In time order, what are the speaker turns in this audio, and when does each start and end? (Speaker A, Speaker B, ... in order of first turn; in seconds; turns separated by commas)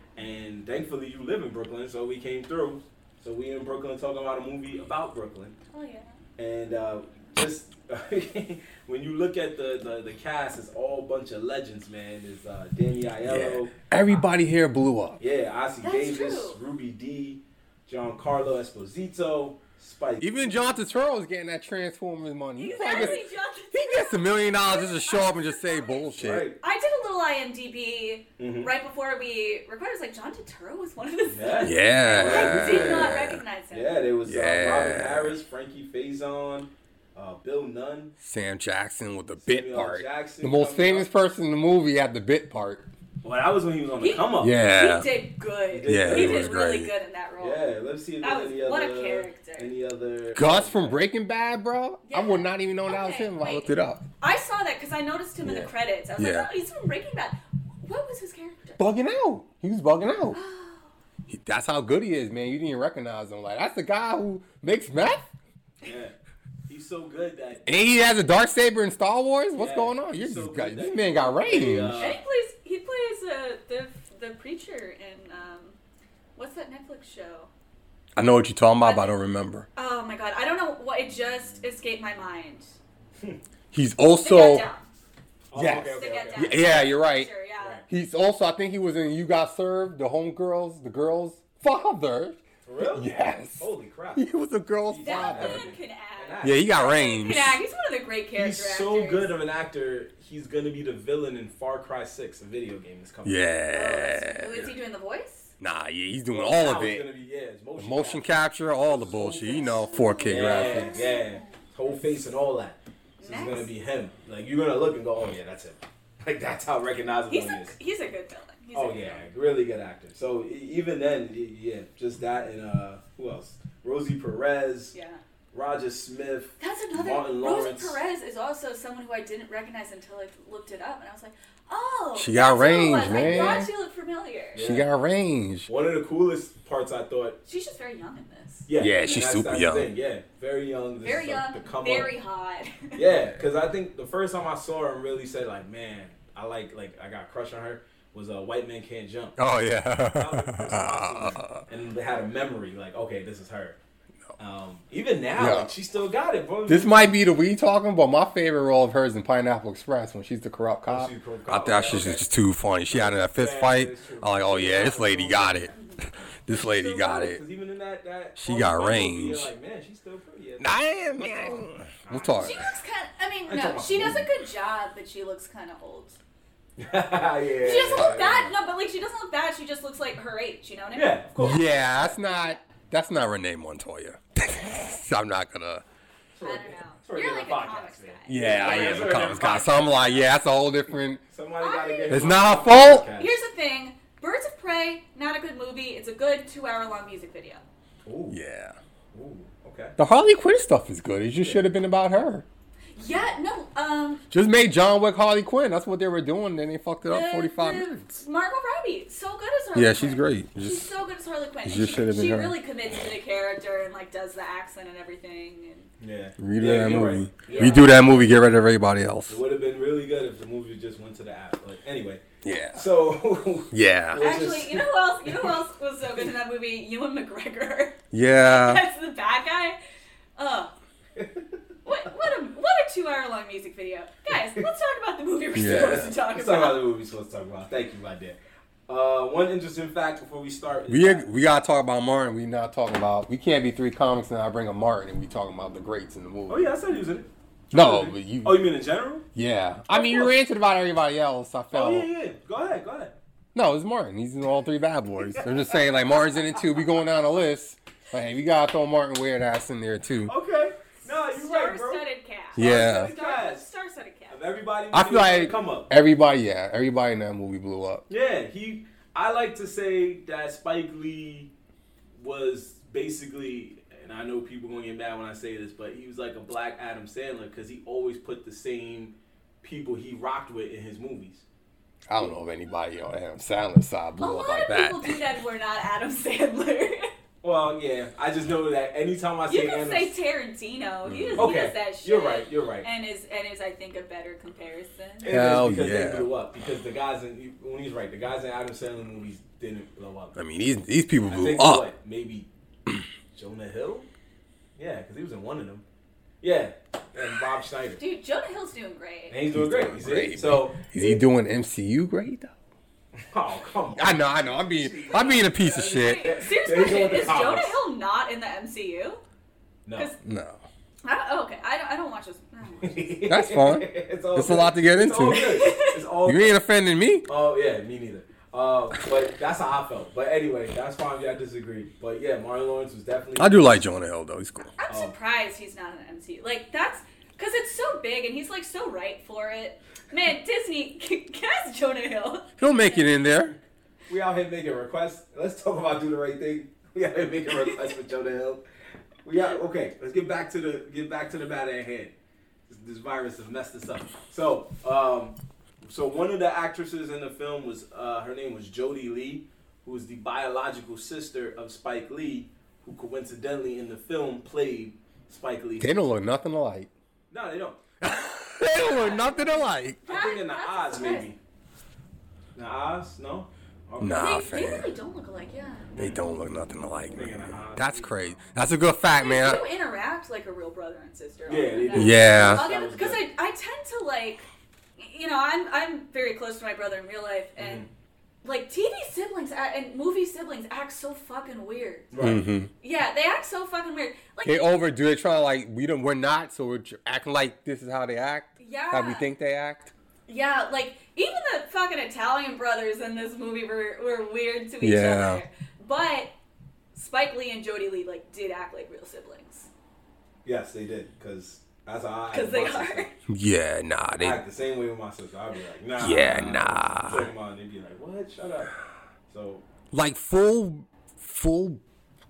Speaker A: 0.1-5.5, Speaker B: 5.7-6.2, Speaker A: 6.4-13.7, Speaker C: 13.2-15.2, Speaker A: 15.2-20.8, Speaker B: 15.8-16.6, Speaker C: 20.2-26.5, Speaker B: 22.6-26.1, Speaker A: 26.2-26.6, Speaker B: 26.6-34.0, Speaker A: 28.4-28.7, Speaker A: 31.3-33.2, Speaker C: 31.6-33.4, Speaker A: 33.7-38.1, Speaker C: 34.2-35.4, Speaker C: 38.2-42.9, Speaker A: 39.4-41.1, Speaker A: 43.2-44.5, Speaker B: 44.0-47.7, Speaker C: 44.4-45.1, Speaker A: 45.7-46.5, Speaker C: 45.9-46.9, Speaker A: 47.4-51.0, Speaker B: 48.2-49.7, Speaker C: 50.4-54.0, Speaker B: 52.1-58.8, Speaker C: 55.4-56.5, Speaker C: 58.8-60.4, Speaker B: 60.3-60.9, Speaker C: 61.3-65.3, Speaker A: 65.8-66.1, Speaker A: 66.7-67.7, Speaker C: 67.7-72.1, Speaker A: 69.5-72.2, Speaker B: 72.0-75.8, Speaker B: 76.4-77.5, Speaker C: 78.2-79.7, Speaker B: 78.8-79.1, Speaker B: 79.8-82.7, Speaker C: 83.7-84.7, Speaker B: 84.2-84.8, Speaker A: 85.5-86.8, Speaker C: 85.5-87.3, Speaker B: 86.0-87.8, Speaker A: 87.6-87.9, Speaker C: 87.9-95.6, Speaker A: 92.6-94.3, Speaker A: 94.9-96.8, Speaker B: 95.0-99.3, Speaker C: 96.4-97.6, Speaker A: 98.4-103.4, Speaker C: 103.2-104.7, Speaker B: 103.7-105.5, Speaker C: 105.6-107.0, Speaker A: 106.3-109.7, Speaker C: 107.8-111.1, Speaker B: 109.4-111.6, Speaker A: 110.2-117.8, Speaker B: 113.2-113.7, Speaker B: 117.3-119.3, Speaker A: 118.7-124.9, Speaker B: 124.9-125.2, Speaker A: 125.5-128.0, Speaker B: 126.6-134.6, Speaker C: 132.2-133.7, Speaker A: 133.1-133.7, Speaker A: 134.5-134.9, Speaker C: 134.6-135.7, Speaker A: 135.7-137.4, Speaker B: 137.4-138.7, Speaker A: 138.7-142.1, Speaker C: 138.8-139.9, Speaker B: 141.0-143.0, Speaker A: 142.9-149.4, Speaker C: 149.4-151.6, Speaker A: 150.1-153.8, Speaker A: 154.4-157.1, Speaker C: 155.4-155.7, Speaker C: 156.7-167.4, Speaker A: 160.9-162.2, Speaker A: 162.9-165.7, Speaker B: 165.7-166.0, Speaker A: 166.5-172.7, Speaker C: 168.4-169.5, Speaker C: 170.6-172.7, Speaker B: 172.4-176.2, Speaker A: 173.5-174.3, Speaker A: 176.8-178.5, Speaker B: 177.6-181.2, Speaker A: 180.9-182.1, Speaker C: 181.4-185.8, Speaker B: 182.3-182.6, Speaker A: 186.3-190.3, Speaker B: 186.4-188.9, Speaker C: 188.3-191.2, Speaker A: 191.3-193.4, Speaker B: 191.6-192.4, Speaker C: 192.1-193.1, Speaker B: 193.2-197.6, Speaker A: 198.0-198.4, Speaker C: 198.3-198.8, Speaker A: 199.1-199.9, Speaker C: 200.0-202.4, Speaker A: 201.4-201.6, Speaker B: 202.9-204.2, Speaker C: 204.3-208.2, Speaker B: 207.1-215.9, Speaker C: 209.8-210.9, Speaker C: 211.6-212.5, Speaker A: 216.0-218.3, Speaker C: 216.4-219.4, Speaker B: 217.5-218.0, Speaker A: 219.3-225.5, Speaker C: 222.4-222.8, Speaker C: 223.7-224.2, Speaker B: 224.2-229.8, Speaker C: 228.1-228.8, Speaker B: 230.4-230.7, Speaker A: 231.2-231.4, Speaker B: 231.8-236.8, Speaker C: 235.5-236.1, Speaker A: 235.6-241.3, Speaker C: 240.9-246.7, Speaker A: 246.5-249.2, Speaker C: 247.7-248.6, Speaker C: 249.3-252.1, Speaker A: 249.9-250.3, Speaker A: 251.7-253.1, Speaker C: 253.5-260.3, Speaker A: 255.2-255.9, Speaker A: 260.2-262.0, Speaker B: 261.3-264.4, Speaker C: 262.6-263.1, Speaker A: 262.6-263.7, Speaker A: 264.3-265.9, Speaker C: 264.9-268.0, Speaker A: 268.1-271.5, Speaker A: 272.2-281.4, Speaker C: 282.1-285.2, Speaker B: 284.2-287.1, Speaker A: 287.4-290.1, Speaker B: 289.5-295.3, Speaker C: 291.0-291.5, Speaker A: 291.4-292.9, Speaker A: 295.2-300.4, Speaker C: 295.2-296.3, Speaker C: 300.4-301.9, Speaker A: 301.2-302.5, Speaker A: 303.3-304.1, Speaker A: 304.8-305.8, Speaker A: 306.4-308.0, Speaker B: 308.0-309.4, Speaker A: 309.3-311.2, Speaker C: 309.5-312.5, Speaker A: 313.3-317.8, Speaker C: 313.9-316.3, Speaker B: 315.8-319.2, Speaker A: 319.9-320.1, Speaker C: 320.2-320.6, Speaker B: 321.0-323.1, Speaker A: 322.8-326.6, Speaker C: 323.3-325.6, Speaker B: 325.3-326.0, Speaker C: 326.2-327.3, Speaker A: 327.3-333.9, Speaker C: 333.4-334.7, Speaker B: 334.8-343.0, Speaker C: 342.6-343.5, Speaker A: 344.1-348.6, Speaker A: 349.2-352.1, Speaker A: 352.7-365.9, Speaker C: 365.8-366.9, Speaker A: 367.3-367.8, Speaker C: 368.0-370.0, Speaker B: 368.9-371.3, Speaker A: 370.1-371.4, Speaker A: 372.5-374.4, Speaker C: 374.0-374.9, Speaker B: 374.1-375.9, Speaker C: 376.0-379.6, Speaker A: 377.1-378.5, Speaker B: 379.1-384.4, Speaker A: 381.5-383.2, Speaker C: 381.9-382.6, Speaker B: 385.0-387.8, Speaker A: 387.6-387.9, Speaker B: 388.4-392.1, Speaker A: 392.1-392.4, Speaker C: 392.2-392.7, Speaker B: 392.8-394.8, Speaker C: 394.4-399.9, Speaker B: 398.6-399.3, Speaker B: 400.3-406.3, Speaker C: 404.8-405.4, Speaker B: 406.9-409.7, Speaker A: 410.4-413.1, Speaker B: 412.3-413.1, Speaker C: 413.3-414.4, Speaker A: 414.2-418.7, Speaker C: 416.0-417.3, Speaker A: 419.3-419.6, Speaker C: 419.9-421.8